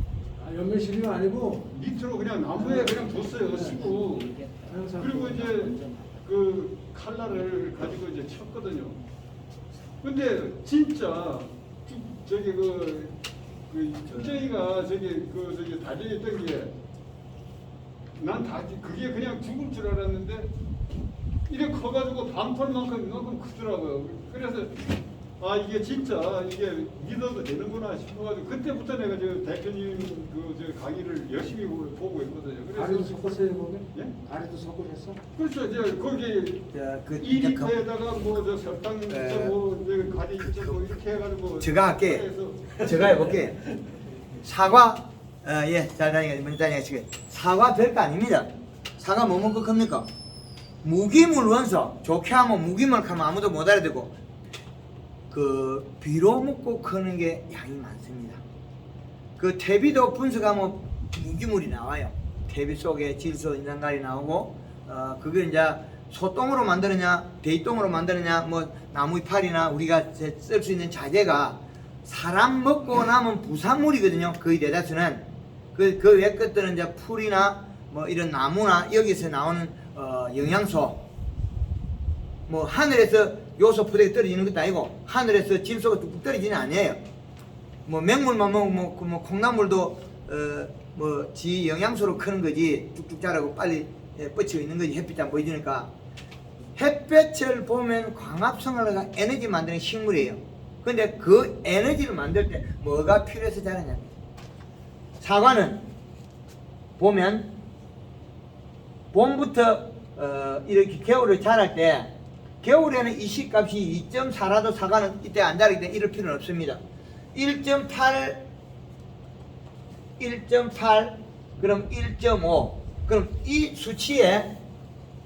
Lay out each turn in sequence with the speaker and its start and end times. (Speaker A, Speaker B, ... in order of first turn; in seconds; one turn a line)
Speaker A: 0.3-1.8
Speaker B: 1.7-9.0
Speaker A: 2.5-6.2
Speaker B: 10.0-16.7
Speaker B: 18.1-20.5
Speaker B: 21.5-33.4
Speaker A: 32.7-35.2
Speaker B: 35.3-43.5
Speaker C: 36.7-37.8
Speaker C: 39.1-39.6
Speaker C: 40.4-40.8
Speaker C: 41.6-43.6
Speaker C: 44.4-50.1
Speaker C: 50.8-54.2
Speaker C: 55.3-58.4
Speaker C: 59.4-81.0
Speaker C: 82.5-87.0
Speaker C: 87.8-95.9
Speaker C: 96.8-104.1
Speaker C: 105.2-105.8
Speaker C: 107.0-107.5
Speaker C: 109.1-116.8
Speaker C: 117.3-118.4
Speaker C: 120.2-124.6